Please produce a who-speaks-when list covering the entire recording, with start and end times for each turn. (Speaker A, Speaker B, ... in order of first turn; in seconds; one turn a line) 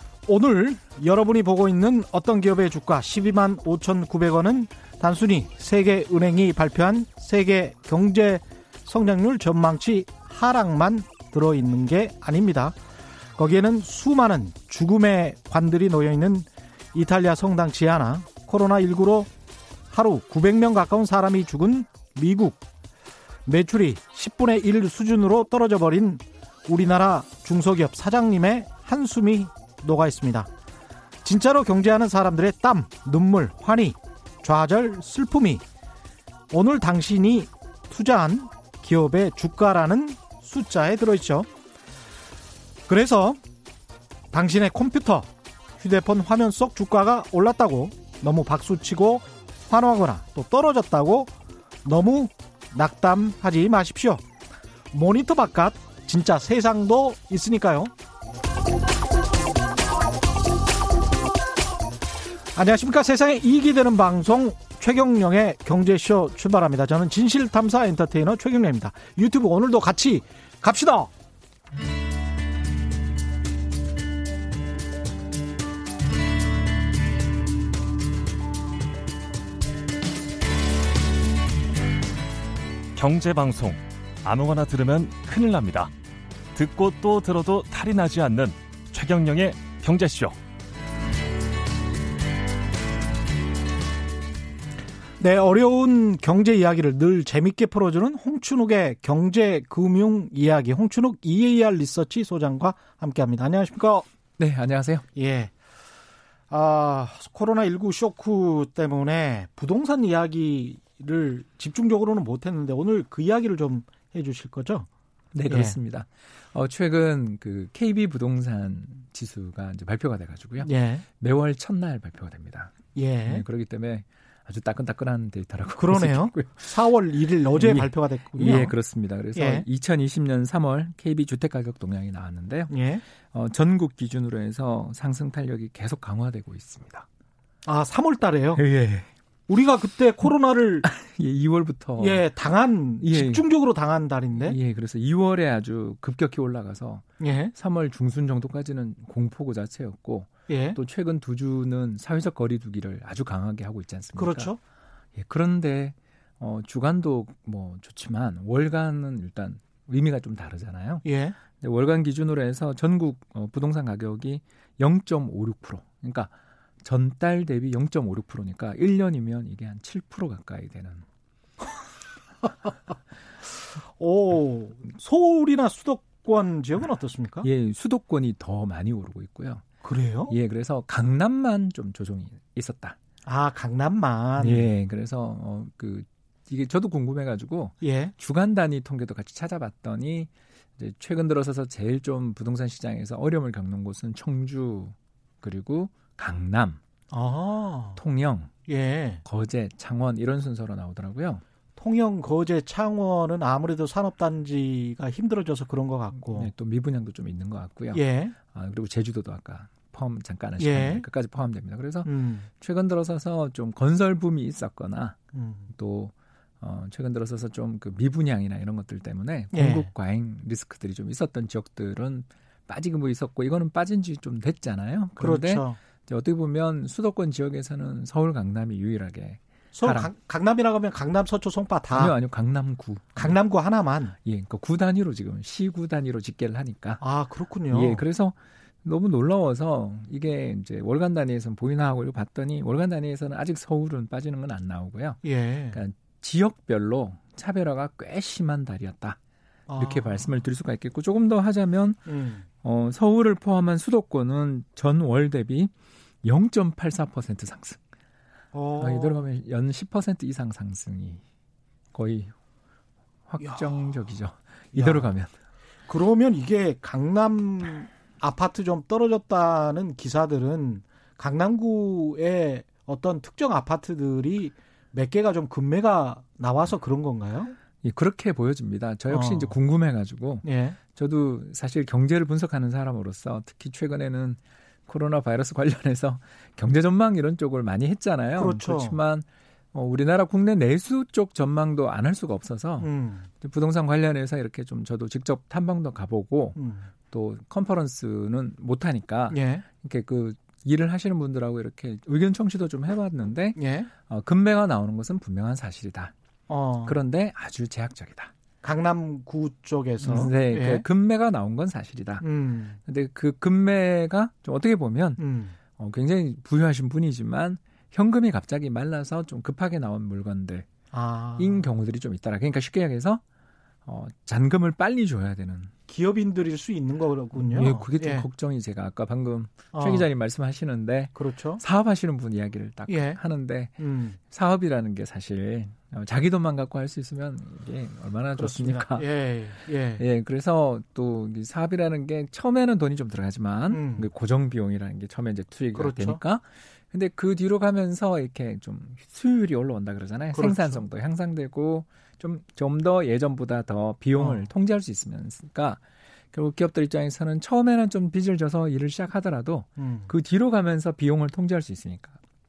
Speaker A: 0.2-12.8
Speaker A: 13.3-19.3
Speaker A: 19.9-22.6
Speaker A: 23.4-30.5
Speaker A: 31.2-35.6
Speaker A: 36.5-41.5
Speaker A: 42.9-43.4
Speaker A: 44.3-51.3
Speaker A: 51.8-54.2
Speaker A: 54.9-57.9
Speaker A: 62.5-71.1
Speaker B: 82.9-85.9
Speaker B: 86.5-90.4
Speaker A: 95.2-104.1
Speaker C: 104.4-105.0
Speaker A: 105.2-105.5
Speaker A: 106.5-114.9
Speaker C: 115.3-126.8
Speaker A: 115.5-115.8
Speaker A: 120.6-121.0
Speaker A: 122.9-123.4
Speaker A: 125.8-128.7
Speaker C: 127.5-137.1
Speaker A: 129.3-129.7
Speaker A: 132.7-133.0
Speaker A: 137.7-138.6
Speaker C: 138.6-139.1
Speaker A: 139.5-140.9
Speaker C: 140.8-142.2
Speaker A: 142.0-144.6
Speaker C: 143.0-143.4
Speaker C: 144.4-154.5
Speaker A: 147.2-147.6
Speaker A: 150.5-150.8
Speaker A: 154.2-154.6
Speaker C: 155.2-166.3
Speaker A: 161.0-161.4
Speaker C: 166.8-171.1
Speaker A: 173.9-177.5
Speaker C: 177.4-179.7
Speaker A: 179.8-180.3
Speaker C: 180.3-183.0
Speaker A: 183.2-184.7
Speaker C: 184.4-196.8
Speaker A: 187.8-188.1
Speaker A: 197.1-198.0
Speaker C: 198.0-198.5
Speaker A: 198.7-199.2
Speaker C: 199.2-201.4
Speaker A: 201.8-206.5
Speaker C: 206.2-215.2
Speaker A: 207.9-208.4
Speaker A: 210.6-211.1
Speaker A: 212.1-212.5
Speaker A: 215.3-215.7
Speaker C: 215.7-230.1
Speaker A: 219.5-219.9
Speaker A: 225.2-225.8
Speaker A: 229.7-232.1
Speaker C: 231.9-233.4
Speaker A: 233.2-234.1
Speaker C: 234.2-237.0
Speaker A: 237.0-238.0
Speaker C: 237.7-245.2
Speaker A: 245.2-245.8
Speaker C: 245.7-249.2
Speaker A: 249.7-250.3
Speaker C: 249.8-252.1
Speaker A: 252.1-252.4
Speaker C: 252.6-255.7
Speaker C: 256.2-257.8
Speaker A: 258.5-259.2
Speaker C: 258.8-261.2
Speaker C: 261.9-262.3
Speaker C: 263.3-265.3
Speaker A: 264.7-265.1
Speaker A: 265.9-277.6
Speaker C: 277.8-296.6
Speaker A: 279.1-279.5
Speaker A: 280.4-280.8
Speaker A: 288.4-289.0
Speaker A: 292.8-293.3
Speaker A: 296.6-296.9
Speaker C: 297.1-306.1
Speaker A: 299.3-299.7
Speaker A: 303.6-303.9
Speaker A: 306.5-307.0
Speaker C: 306.9-308.3
Speaker A: 308.6-310.9
Speaker C: 310.0-312.2
Speaker A: 312.2-312.8
Speaker C: 312.9-315.2
Speaker A: 315.2-315.6
Speaker C: 315.7-320.7
Speaker A: 320.9-321.7
Speaker C: 321.4-323.2
Speaker C: 323.9-325.7
Speaker A: 325.9-328.3
Speaker C: 327.4-339.1
Speaker A: 329.7-330.1
Speaker A: 331.1-331.6
Speaker A: 332.9-333.2
Speaker A: 333.8-334.2
Speaker A: 338.4-340.0
Speaker C: 340.0-362.2
Speaker A: 343.7-344.1
Speaker A: 345.7-346.2
Speaker A: 350.3-350.9
Speaker A: 354.2-354.5
Speaker A: 359.8-360.1